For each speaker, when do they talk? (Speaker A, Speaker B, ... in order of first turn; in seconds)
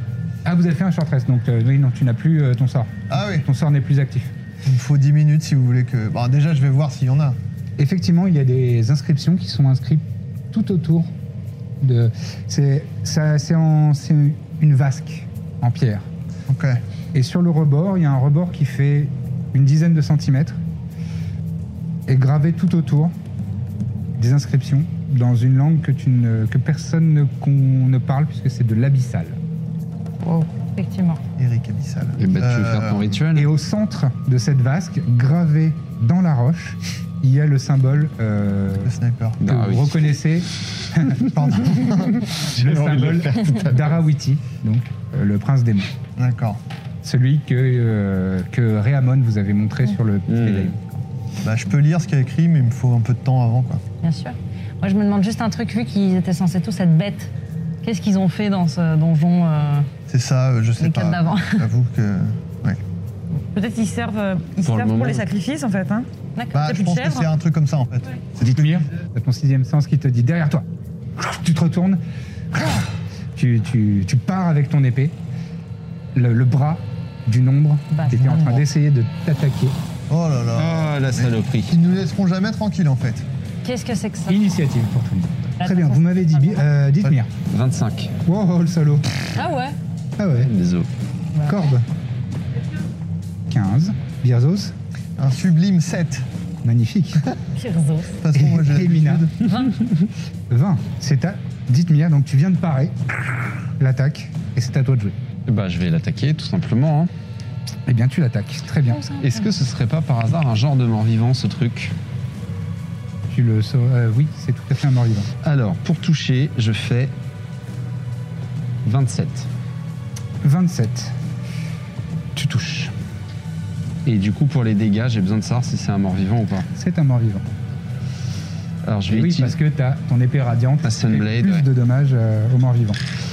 Speaker A: 0.5-4.3, 7.8-11.1, 11.8-16.1, 17.1-20.6, 22.1-23.1, 24.2-29.4, 33.4-38.9, 39.5-45.9, 47.0-51.0, 68.4-70.7, 71.2-75.2, 76.2-79.8, 84.3-87.3, 88.3-89.4, 90.2-90.5, 91.5-91.8, 93.5-94.8, 96.6-97.2, 98.3-99.3, 100.5-105.2, 107.9-109.0, 113.3-115.3, 120.4-121.2, 122.3-122.9, 126.8-127.5, 129.1-133.0
Speaker B: 3.1-3.5, 4.7-7.4, 16.5-16.8, 31.4-33.1, 38.9-39.4, 41.3-42.2, 46.2-46.6, 51.4-53.8, 60.1-62.8, 66.5-68.7, 80.1-83.2, 95.2-96.2, 98.2-99.3
Speaker C: 30.2-31.2, 54.0-57.3, 57.8-59.9, 60.8-61.7, 66.4-66.7, 77.9-78.6, 83.6-84.4, 85.6-86.7, 89.4-89.8, 97.6-98.2, 108.8-109.5
Speaker D: 32.2-33.5, 39.4-40.1, 41.8-44.0, 50.3-50.7, 64.7-65.3, 80.6-81.8, 87.5-88.1, 90.3-90.9, 105.5-107.1, 109.2-111.9, 115.4-117.1, 118.8-119.5, 124.1-126.7, 128.8-129.6, 130.8-131.7
Speaker E: 63.5-66.1, 66.7-67.3